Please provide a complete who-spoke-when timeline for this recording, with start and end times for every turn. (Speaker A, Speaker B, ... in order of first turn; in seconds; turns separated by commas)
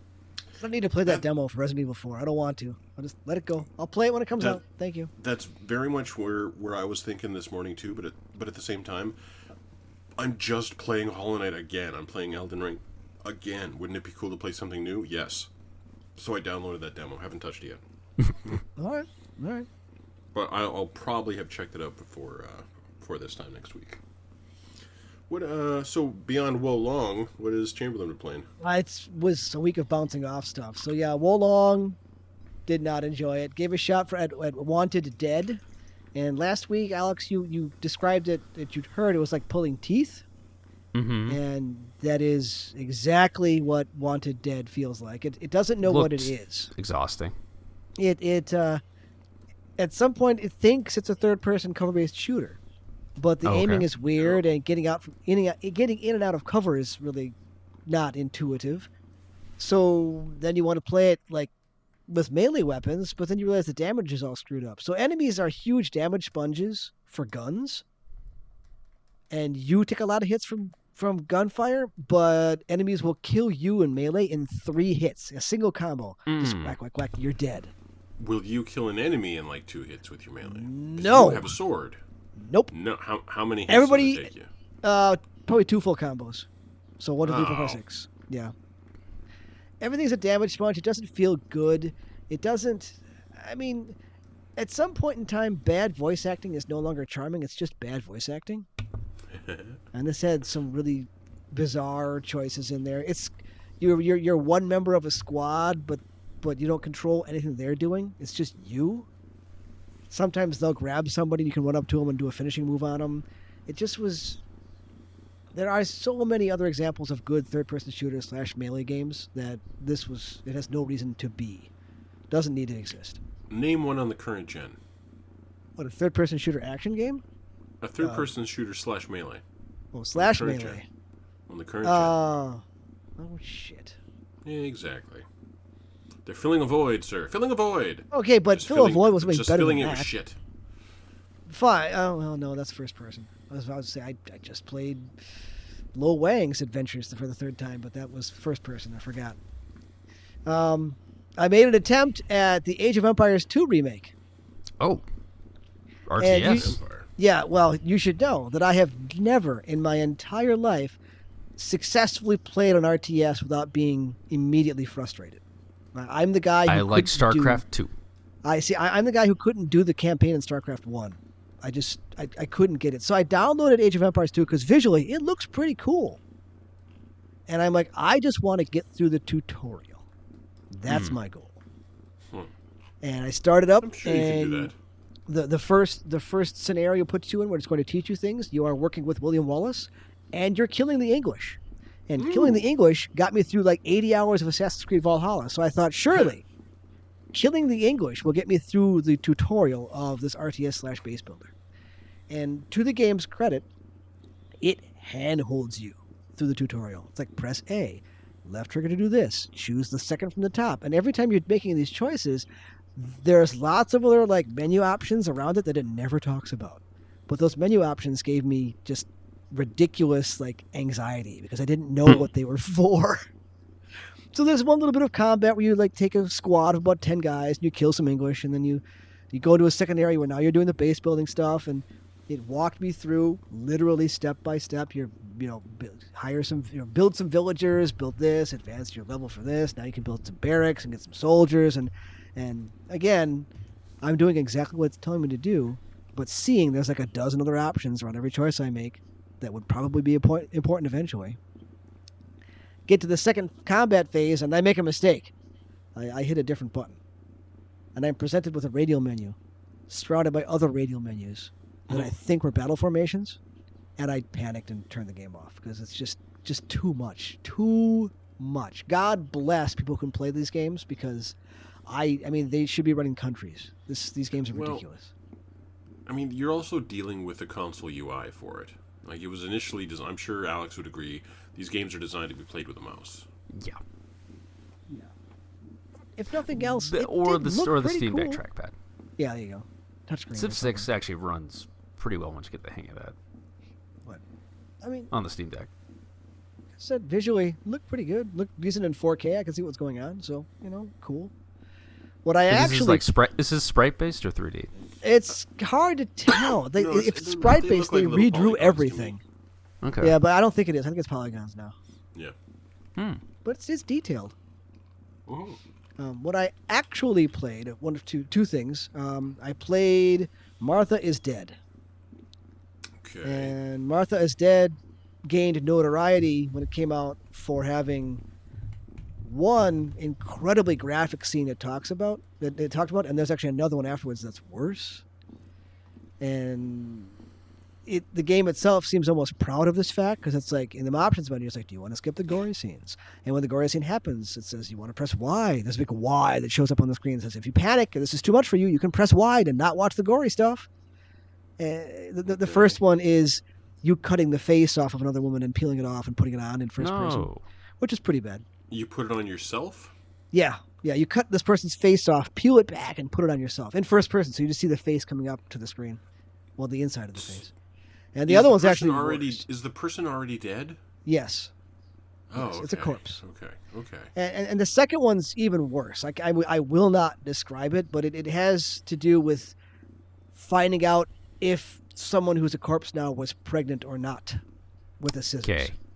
Speaker A: 0.6-5.1, Speaker B: 5.2-9.2, Speaker B: 10.2-15.5, Speaker B: 16.1-17.8, Speaker A: 18.8-19.7, Speaker B: 20.3-24.0, Speaker B: 25.3-28.5, Speaker A: 28.6-32.0, Speaker A: 32.7-35.6, Speaker A: 36.1-40.2, Speaker C: 40.9-41.4, Speaker A: 41.3-46.7, Speaker C: 45.8-47.3, Speaker A: 48.0-48.8, Speaker A: 49.8-52.6, Speaker A: 53.2-57.3, Speaker C: 53.4-53.9, Speaker B: 54.2-54.4, Speaker A: 57.9-58.9, Speaker A: 59.6-61.5, Speaker A: 62.1-67.8, Speaker A: 69.3-77.7, Speaker C: 76.3-76.8, Speaker B: 78.2-82.0, Speaker A: 80.4-81.5, Speaker A: 82.4-82.7, Speaker B: 82.7-84.5, Speaker A: 83.7-84.3, Speaker A: 84.8-86.5, Speaker A: 87.0-88.5, Speaker B: 87.2-87.8, Speaker A: 89.8-94.0, Speaker A: 94.5-98.7, Speaker B: 99.3-99.8, Speaker A: 99.9-109.1, Speaker A: 110.1-114.4, Speaker A: 115.5-121.7, Speaker A: 122.3-123.2, Speaker B: 123.5-124.8, Speaker A: 125.8-127.2, Speaker B: 127.8-129.4, Speaker A: 128.0-128.3, Speaker A: 129.9-130.9, Speaker B: 130.1-130.8, Speaker B: 131.5-132.2, Speaker A: 131.8-132.6, Speaker A: 133.2-134.0, Speaker B: 134.4-135.2, Speaker B: 136.2-140.4, Speaker A: 138.1-140.1, Speaker A: 141.5-145.1, Speaker A: 145.9-149.4, Speaker A: 150.4-154.1, Speaker C: 156.1-156.7, Speaker A: 156.2-161.0, Speaker B: 156.4-157.1, Speaker A: 161.6-165.4, Speaker A: 165.9-167.6, Speaker C: 166.7-167.9, Speaker A: 168.4-176.2, Speaker A: 177.5-180.0, Speaker A: 180.7-181.6, Speaker C: 180.9-181.2, Speaker A: 183.0-184.7, Speaker B: 183.8-184.8, Speaker A: 185.3-196.4, Speaker B: 192.2-192.6, Speaker A: 197.3-201.5, Speaker A: 202.3-203.7, Speaker A: 204.6-223.2, Speaker A: 224.3-243.5, Speaker A: 244.0-251.4, Speaker A: 252.9-255.3, Speaker A: 255.9-257.0, Speaker A: 257.9-259.4, Speaker A: 259.9-263.4, Speaker A: 264.0-275.1, Speaker B: 274.5-274.8, Speaker B: 276.1-283.3, Speaker C: 283.5-283.8, Speaker A: 286.1-288.4, Speaker C: 286.7-288.7, Speaker A: 289.2-290.9, Speaker C: 290.3-293.1, Speaker A: 294.8-295.1, Speaker C: 295.1-295.7, Speaker A: 296.8-301.3, Speaker A: 302.2-303.1, Speaker C: 302.5-304.7, Speaker A: 305.0-309.2, Speaker B: 306.7-309.2, Speaker C: 309.8-310.1, Speaker A: 310.0-311.7, Speaker C: 312.9-313.2, Speaker A: 313.4-314.3, Speaker B: 315.3-315.6, Speaker A: 316.0-321.6, Speaker B: 323.0-323.6, Speaker A: 323.2-328.2, Speaker A: 329.2-335.0, Speaker A: 336.2-337.1, Speaker A: 337.9-350.7, Speaker A: 351.6-357.3, Speaker B: 352.3-352.8, Speaker C: 356.8-357.4, Speaker A: 357.8-358.4, Speaker B: 358.7-359.9, Speaker A: 360.3-366.0, Speaker A: 366.6-367.5, Speaker B: 367.1-367.4, Speaker A: 368.1-369.4, Speaker B: 368.3-370.8, Speaker A: 371.0-371.5, Speaker B: 372.3-374.1, Speaker A: 372.3-373.2, Speaker A: 374.1-379.6, Speaker A: 380.3-384.4, Speaker A: 385.0-385.7, Speaker C: 385.4-385.7